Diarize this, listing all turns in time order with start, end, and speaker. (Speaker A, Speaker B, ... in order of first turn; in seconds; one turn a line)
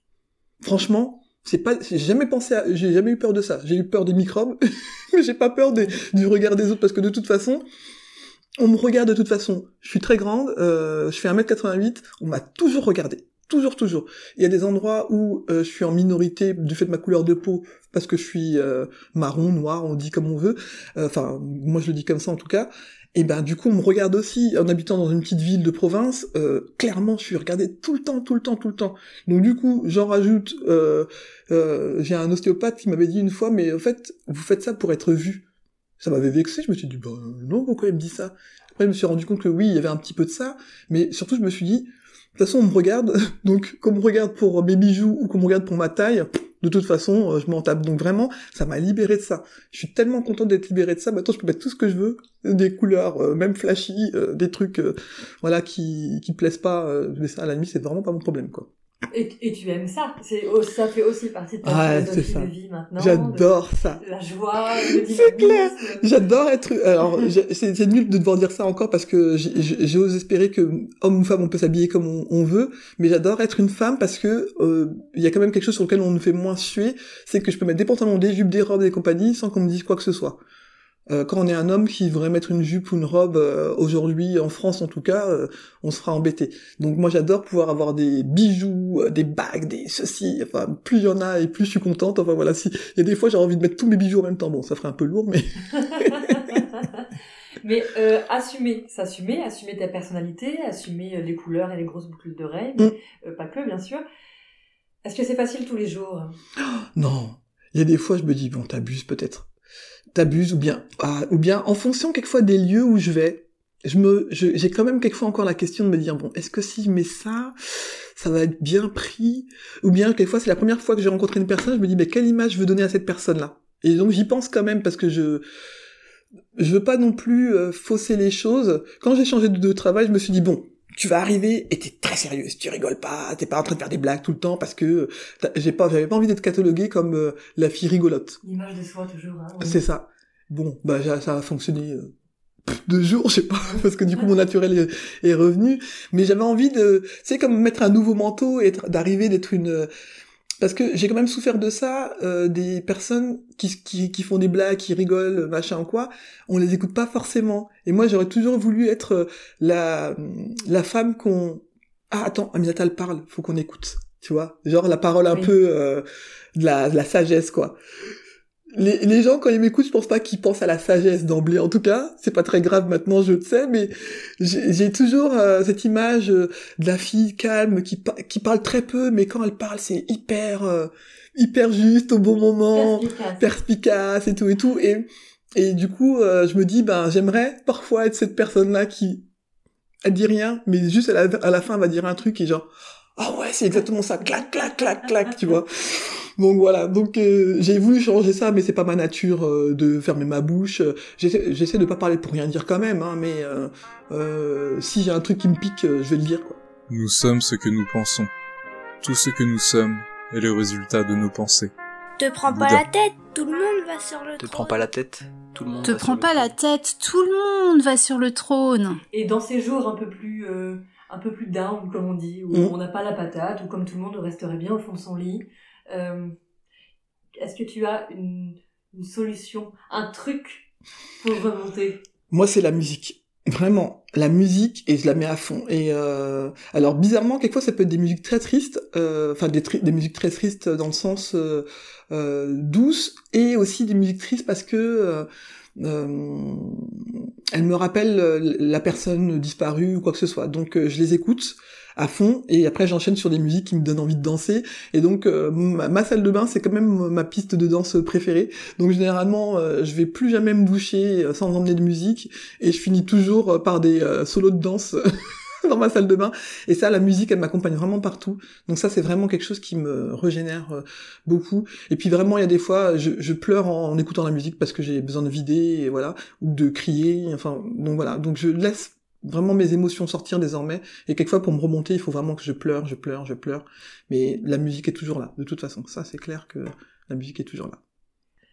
Speaker A: 0.6-4.6
Speaker A: 5.1-7.7
Speaker A: 8.6-35.4
Speaker A: 36.0-58.7
Speaker B: 59.1-66.3
Speaker A: 61.6-64.0
Speaker A: 64.7-80.4
Speaker A: 81.1-96.6
Speaker B: 95.9-97.1
Speaker B: 97.6-104.0
Speaker B: 105.0-106.4
Speaker A: 106.6-109.5
Speaker A: 110.1-125.4
Speaker A: 126.6-138.4
Speaker B: 138.4-139.8
Speaker A: 139.6-142.1
Speaker A: 142.7-149.9
Speaker A: 150.6-167.8
Speaker B: 165.3-165.5
Speaker A: 168.7-189.2
Speaker B: 182.7-183.5
Speaker A: 190.0-206.6
Speaker C: 206.9-208.3
Speaker C: 209.0-211.7
Speaker D: 212.2-214.7
Speaker C: 212.5-212.9
Speaker E: 214.4-216.6
Speaker F: 215.8-219.0
Speaker B: 219.1-226.3
Speaker B: 227.4-230.7
Speaker B: 231.2-232.0
Speaker A: 232.3-287.8